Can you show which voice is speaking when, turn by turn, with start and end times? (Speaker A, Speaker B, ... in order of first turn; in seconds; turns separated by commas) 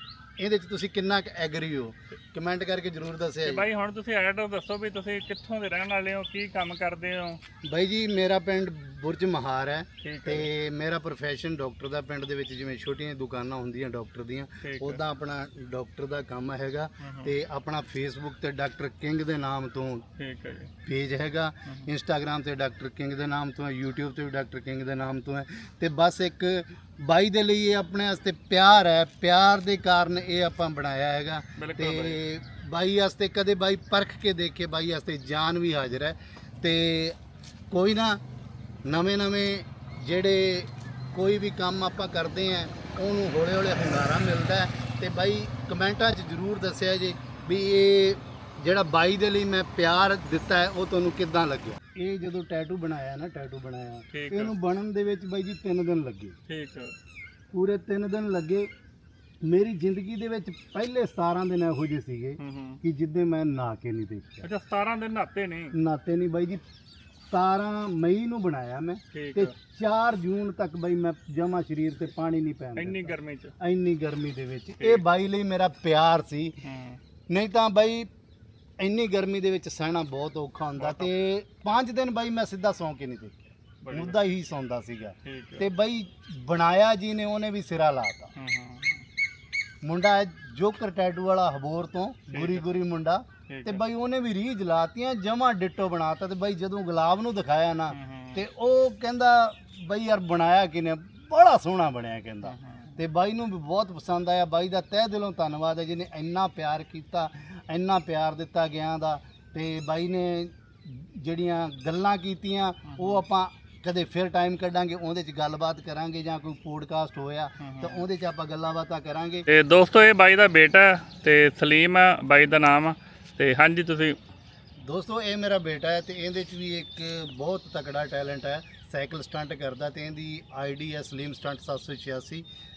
Speaker A: 0.4-3.6, Speaker B: 3.4-7.4, Speaker A: 7.6-20.1, Speaker B: 10.0-10.5, Speaker B: 14.6-15.0, Speaker B: 17.0-17.3, Speaker B: 20.2-20.7, Speaker A: 20.8-37.2, Speaker B: 31.6-32.2, Speaker A: 37.7-38.2, Speaker A: 38.9-56.4, Speaker B: 54.1-54.5, Speaker B: 56.5-56.9, Speaker A: 57.5-58.7, Speaker A: 59.4-64.5, Speaker B: 62.4-62.8, Speaker B: 64.4-65.7, Speaker A: 65.7-66.6, Speaker A: 67.3-76.6, Speaker B: 69.1-69.5, Speaker B: 72.8-73.5, Speaker B: 76.6-77.0, Speaker A: 77.3-78.1, Speaker A: 78.8-88.3, Speaker B: 80.8-81.1, Speaker B: 83.8-84.2, Speaker B: 85.2-85.7, Speaker B: 88.3-89.0, Speaker A: 89.8-119.5, Speaker B: 92.3-92.7, Speaker B: 93.5-93.8, Speaker B: 97.9-98.4, Speaker B: 102.4-103.0, Speaker B: 112.8-113.2, Speaker B: 117.6-118.0, Speaker B: 119.5-124.2, Speaker A: 124.8-132.4